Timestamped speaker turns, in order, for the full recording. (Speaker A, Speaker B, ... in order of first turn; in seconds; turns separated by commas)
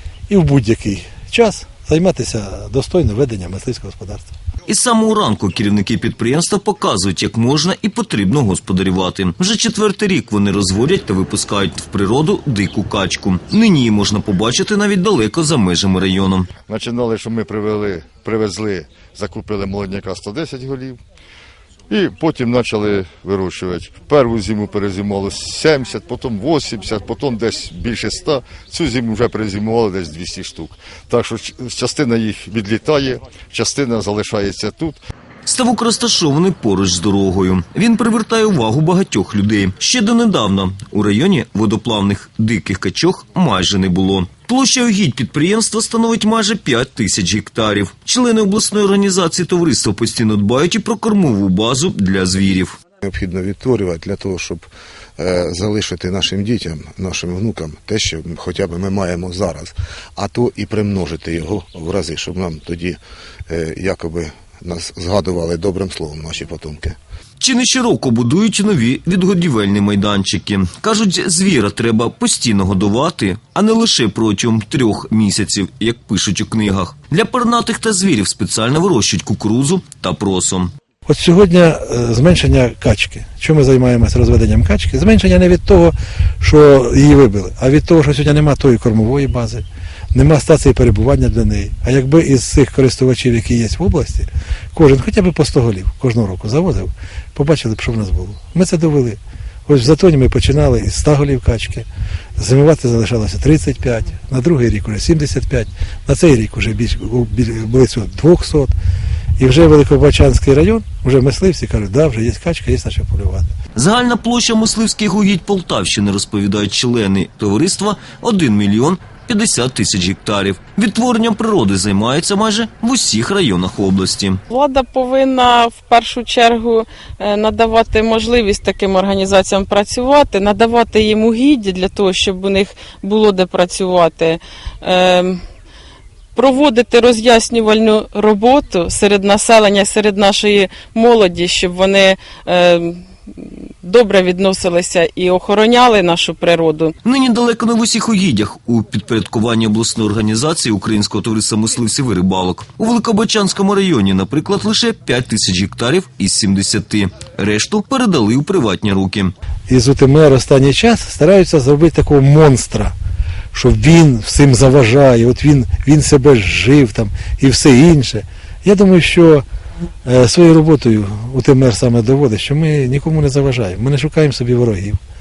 Speaker A: 0.3-4.3, Speaker B: 4.7-16.5, Speaker C: 16.7-21.0, Speaker C: 21.9-35.0, Speaker B: 35.4-52.8, Speaker D: 53.0-54.7, Speaker D: 55.2-67.0, Speaker B: 67.4-80.7, Speaker A: 81.0-108.7, Speaker A: 109.4-113.5, Speaker B: 113.8-124.4, Speaker E: 124.5-135.4, Speaker E: 136.3-146.9, Speaker B: 147.0-159.3, Speaker A: 159.7-162.9, Speaker A: 163.5-169.4, Speaker A: 170.0-175.0